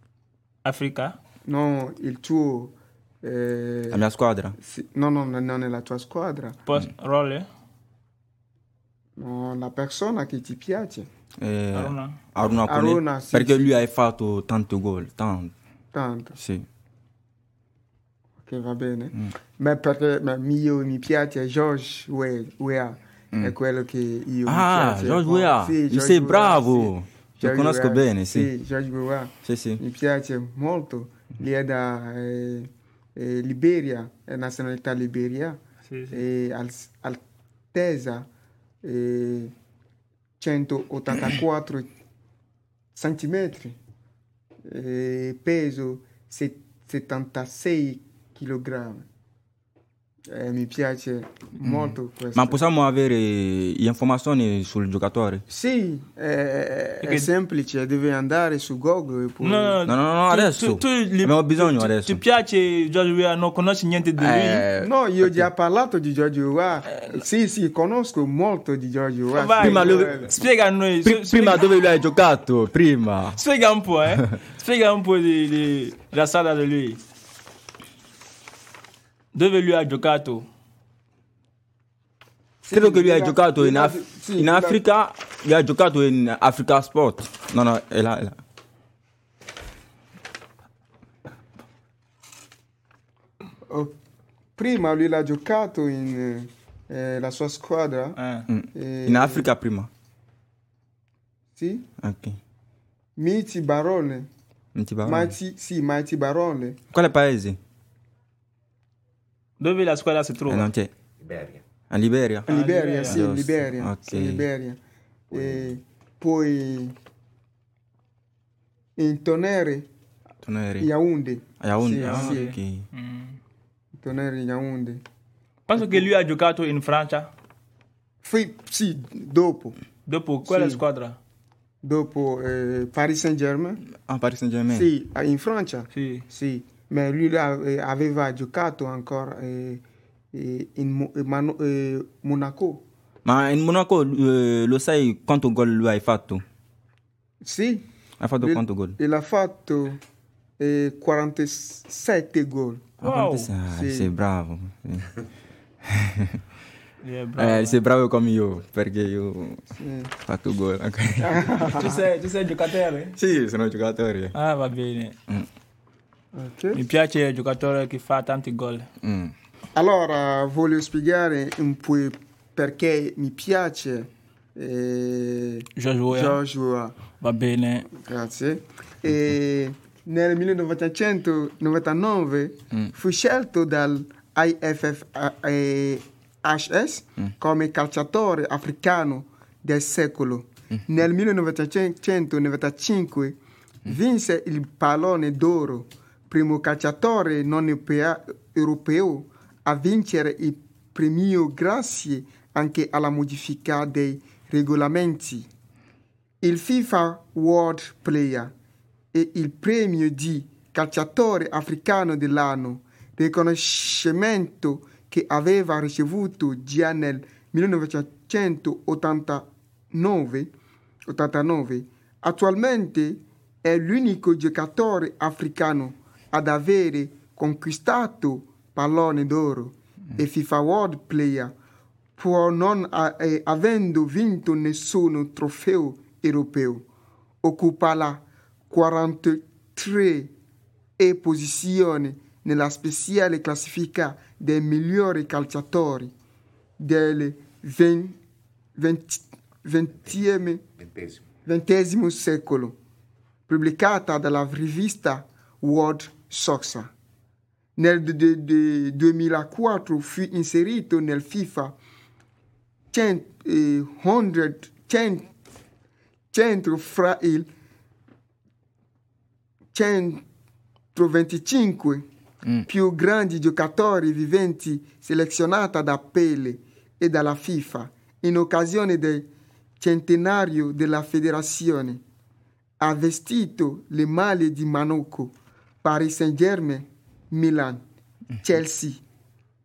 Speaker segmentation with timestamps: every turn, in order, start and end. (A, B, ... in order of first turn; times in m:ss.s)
0:00.6-0:01.1 A
0:01.4-0:04.0 B
0:03.9-0:04.6 C
0:04.6-0:06.6 B
0:06.7-0:07.4 A
0:09.2-0:11.1 B
0:11.4-0:15.5 C
0:11.7-0:12.2 A
0:12.6-0:13.8 B
0:15.9-0:16.4 B
0:16.4-0:16.6 C
0:18.4-0:37.2 B
0:24.4-0:28.5 C
0:29.4-0:29.8 C
0:35.9-0:36.2 A
0:37.7-0:38.3 B
0:38.8-0:39.5 B
0:40.4-0:41.9 B
0:42.9-0:43.8 B
0:44.6-0:49.0 B
0:50.3-0:52.6 B
0:51.6-0:55.4 C
0:55.5-0:59.8 B
0:59.4-0:59.7 A
0:59.8-1:02.2 C
1:00.3-1:04.7 A
1:04.2-1:05.5 C
1:04.8-1:10.3 B
1:09.3-1:11.4 A
1:09.6-1:10.3 C
1:11.0-1:13.4 C
1:13.4-1:16.9 A
1:19.4-1:20.4 A
1:22.6-1:24.8 B
1:22.7-1:28.4 C
1:34.6-1:38.2 B
1:38.2-1:38.4 A
1:38.5-1:39.9 C
1:38.7-1:39.5 B
1:41.6-1:41.9 B
1:42.0-1:42.4 C
1:43.2-1:44.3 B
1:44.7-1:45.3 C
1:45.0-1:46.8 B
1:46.9-1:47.6 C
1:49.6-1:50.7 A
1:50.4-1:50.9 C
1:51.9-1:52.5 C
1:52.5-1:54.8 B
1:52.5-1:53.2 A
1:53.0-1:54.4 C
1:55.3-1:56.9 B
1:59.0-1:59.9 B
2:00.4-2:00.9 C
2:00.8-2:02.5 B
2:01.6-2:02.9 C
2:04.0-2:05.0 B
2:05.7-2:07.2 A
2:05.7-2:06.1 B
2:08.2-2:09.8 B
2:10.1-2:11.2 A
2:10.4-2:10.8 B
2:11.8-2:13.8 B
2:13.9-2:14.9 C
2:14.7-2:19.8 B
2:16.0-2:16.2 A
2:20.3-2:22.8 B
2:23.2-2:26.4 C
2:27.4-2:27.8 B
2:28.2-2:29.0 C
2:28.4-2:30.0 B
2:30.6-2:32.9 B
2:33.0-2:35.2 C
2:33.0-2:33.5 A
2:33.7-2:34.1 B
2:35.8-2:36.4 C
2:37.0-2:37.8 A
2:37.4-2:39.6 C
2:39.8-2:40.1 B
2:40.2-2:41.9 C
2:41.2-2:42.1 B
2:41.9-2:43.0 A
2:43.1-2:44.4 C
2:44.4-2:45.1 A
2:46.3-2:46.8 B
2:46.7-2:48.8 A
2:49.0-2:49.3 C
2:49.7-2:57.0 B
2:56.0-2:56.4 A
2:57.2-2:57.8 A
2:57.9-3:25.5 B
3:26.4-3:28.5 B
3:29.1-3:40.5 B
3:41.1-3:51.5 B
3:52.2-3:56.8 B
3:57.4-4:00.3 B
4:01.0-4:06.1 B
4:06.8-4:08.2 B
4:08.8-4:10.6 B
4:11.4-4:12.8 B
4:13.5-4:16.9 B
4:17.8-4:21.7 B
4:22.9-4:25.3 B
4:26.3-4:27.5 B
4:29.7-4:30.2 B
4:30.9-4:32.0 B
4:32.6-4:39.3 B
4:39.8-4:42.0 B
4:42.8-4:47.8 B
4:48.4-4:49.0 B